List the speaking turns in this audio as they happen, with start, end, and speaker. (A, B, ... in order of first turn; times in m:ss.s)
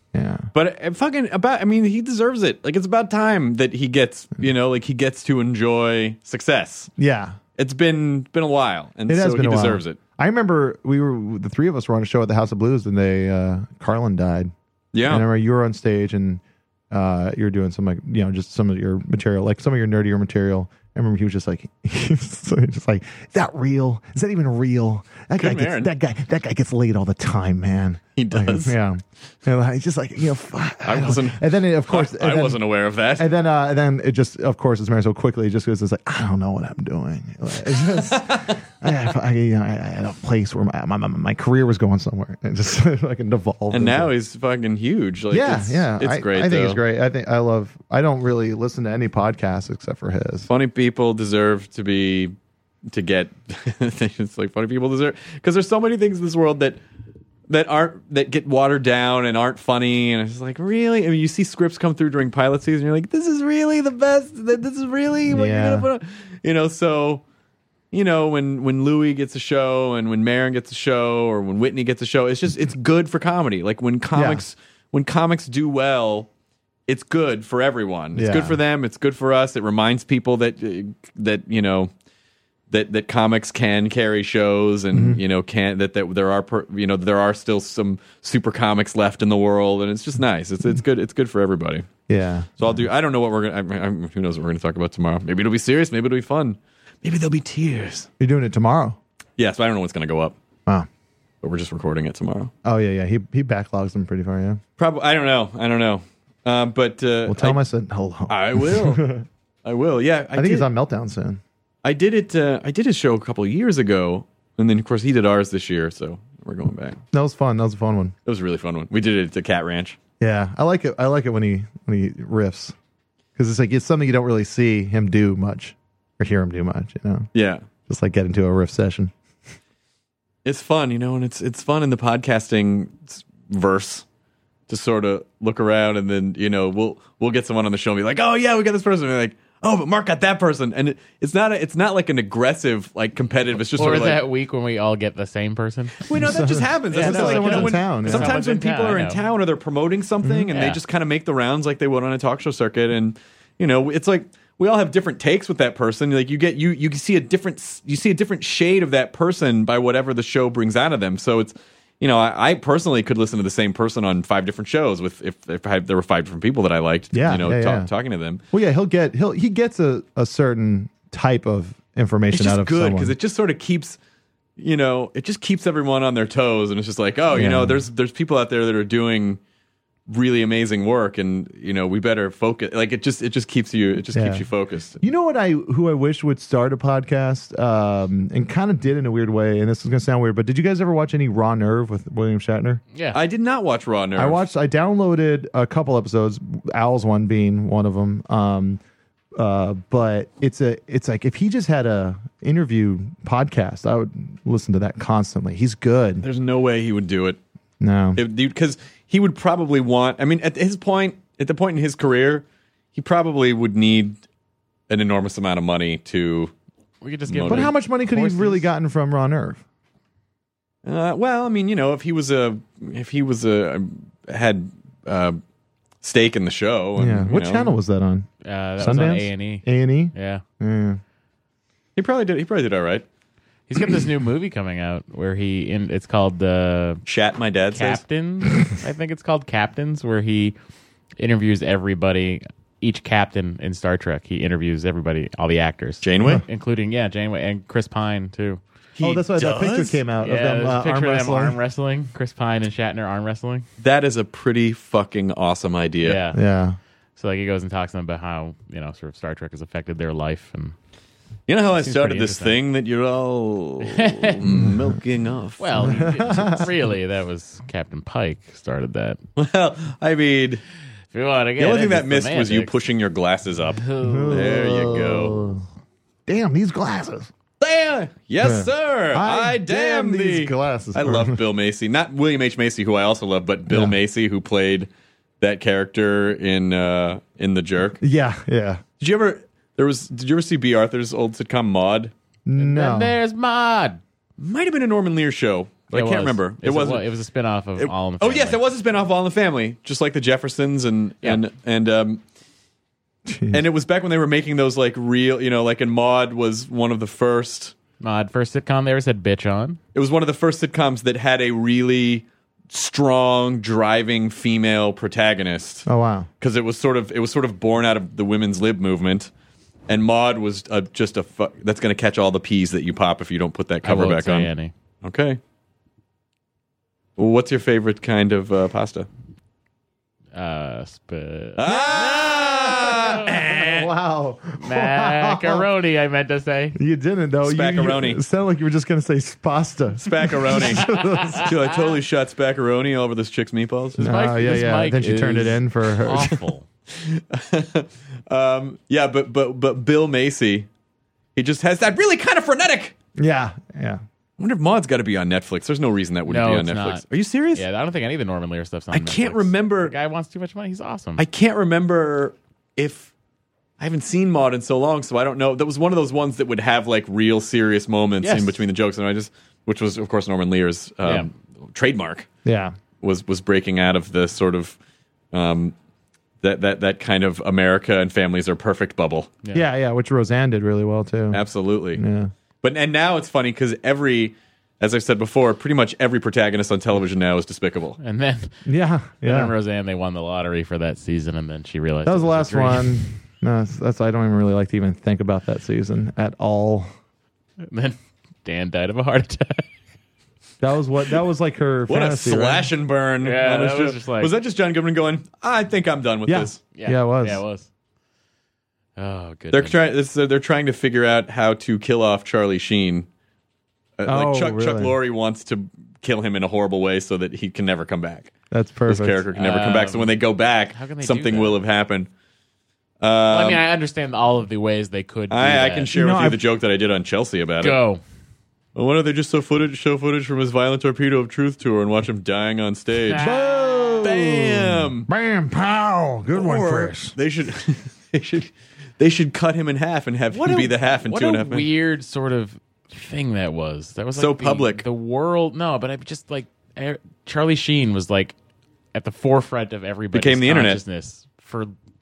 0:00.1-0:00.5 A
0:00.5-0:06.9 B
0:07.0-0:07.4 A
0:07.6-0:10.0 B
0:09.1-0:14.5 A
0:14.9-0:15.3 B
0:15.0-0:32.6 A
0:25.4-0:25.9 B
0:28.2-0:28.8 B
0:30.8-0:33.3 B
0:33.2-0:44.1 A
0:38.0-0:38.6 B
0:43.7-0:46.8 B
0:45.3-0:50.5 A
0:50.5-0:52.3 B
0:52.9-0:56.8 B
0:57.5-1:07.2 B
1:05.3-1:05.9 A
1:07.9-1:16.3 B
1:14.1-1:14.4 A
1:16.9-1:21.9 B
1:18.2-1:18.6 A
1:22.7-1:31.9 B
1:24.9-1:25.2 A
1:32.1-1:32.8 A
1:32.6-1:38.1 B
1:38.2-1:39.0 A
1:39.4-1:40.4 B
1:41.4-1:42.5 B
1:42.6-1:44.6 A
1:44.8-1:47.6 B
1:47.3-1:49.2 A
1:48.3-1:49.0 B
1:49.6-1:50.7 B
1:50.3-1:51.4 A
1:51.8-1:57.0 B
1:57.1-1:58.1 A
1:58.3-2:00.0 B
2:00.2-2:02.8 A
2:03.4-2:07.3 A
2:07.3-2:07.7 B
2:07.9-2:09.1 A
2:10.4-2:14.0 B
2:14.7-2:24.2 B
2:23.8-2:29.2 C
2:26.0-2:48.4 B
2:26.2-2:28.3 A
2:30.2-2:30.5 A
2:30.5-2:30.8 C
2:47.1-2:47.9 A
2:48.5-2:53.2 A
2:52.3-2:54.0 B
2:54.6-2:59.4 B
2:57.3-2:57.8 A
3:00.1-3:05.0 B
3:04.1-3:04.5 A
3:05.0-3:12.8 A
3:12.9-3:13.2 C
3:13.1-3:14.4 B
3:14.2-3:18.8 A
3:19.4-3:26.3 A
3:26.2-3:27.4 B
3:27.8-3:28.2 A
3:28.2-3:34.2 B
3:34.9-3:36.5 B
3:37.0-3:38.6 C
3:37.3-3:37.7 B
3:37.5-3:39.6 A
3:40.8-3:45.4 B
3:46.0-3:47.7 B
3:47.0-3:51.0 A
3:48.4-3:50.4 C
3:52.0-3:53.0 B
3:53.7-3:57.0 C
3:57.1-3:58.0 B
3:57.7-4:00.6 C
4:01.2-4:08.6 C
4:06.0-4:06.4 B
4:09.0-4:10.0 B
4:09.0-4:11.6 A
4:10.2-4:13.7 C
4:13.8-4:16.2 B
4:16.0-4:16.4 C
4:16.3-4:16.8 A
4:17.2-4:20.8 C
4:21.5-4:26.2 B
4:21.8-4:22.6 C
4:23.9-4:24.4 C
4:24.5-4:24.8 A
4:25.6-4:29.2 C
4:25.8-4:26.7 A
4:29.4-4:30.6 B
4:31.1-4:32.7 C
4:31.6-4:35.4 B
4:33.8-4:34.7 C
4:34.0-4:35.6 A
4:36.3-4:37.3 A
4:37.6-4:44.9 B
4:38.4-4:41.4 A
4:43.7-4:44.0 A
4:45.4-4:48.0 B
4:48.0-4:48.8 A
4:49.0-4:52.1 B
4:52.5-4:53.2 A
4:52.6-4:54.0 C
4:54.4-4:57.0 B
4:55.9-4:58.6 C
4:57.8-5:02.2 B
5:03.3-5:03.6 A
5:03.5-5:07.8 B
5:08.0-5:09.8 C
5:09.9-5:15.9 B
5:15.9-5:16.3 A
5:16.4-5:19.3 B
5:19.9-5:24.5 B
5:23.8-5:24.7 C
5:25.0-5:25.4 B
5:27.2-5:29.1 B
5:30.3-5:33.3 C
5:31.6-5:33.9 B
5:31.7-5:35.7 A
5:34.6-5:36.8 C
5:36.8-5:41.6 A
5:37.4-5:38.2 B
5:40.0-5:44.1 B
5:40.6-5:41.2 C
5:44.0-5:46.4 A
5:44.0-5:46.6 C
5:46.9-5:50.7 B
5:51.4-5:53.0 B
5:53.2-5:54.0 A
5:54.4-5:57.7 B
5:56.3-5:57.0 C
5:57.6-6:01.2 C
5:58.9-5:59.9 B
6:01.2-6:03.1 B
6:03.8-6:12.3 B
6:08.2-6:08.6 C
6:11.0-6:11.3 C
6:12.4-6:12.8 A
6:13.0-6:14.8 B
6:15.3-6:15.8 B
6:16.4-6:19.4 B
6:19.5-6:21.4 A
6:21.3-6:22.0 B
6:22.0-6:22.3 A
6:22.6-6:28.0 B
6:28.0-6:28.6 C
6:28.7-6:29.5 A
6:29.2-6:33.1 C
6:32.0-6:36.9 A
6:37.6-6:39.7 C
6:40.6-6:42.7 A
6:41.9-6:46.6 B
6:43.2-6:44.3 C
6:46.3-6:47.4 A
6:46.8-6:47.7 C
6:49.0-6:49.8 C
6:49.5-6:53.1 B
6:54.0-6:58.3 B
6:54.0-6:55.0 A
6:58.5-6:59.3 A
6:58.9-7:02.1 B
6:59.4-7:00.2 C
7:00.7-7:01.6 C
7:03.0-7:03.6 B
7:03.3-7:05.9 C
7:05.3-7:07.8 B
7:05.9-7:06.4 A
7:07.6-7:08.0 C
7:08.8-7:13.3 B
7:13.1-7:14.3 C
7:13.2-7:17.2 A
7:14.0-7:15.1 B
7:16.3-7:21.7 B
7:20.3-7:28.4 C
7:24.2-7:24.8 B
7:28.9-7:31.7 C
7:30.1-7:30.8 B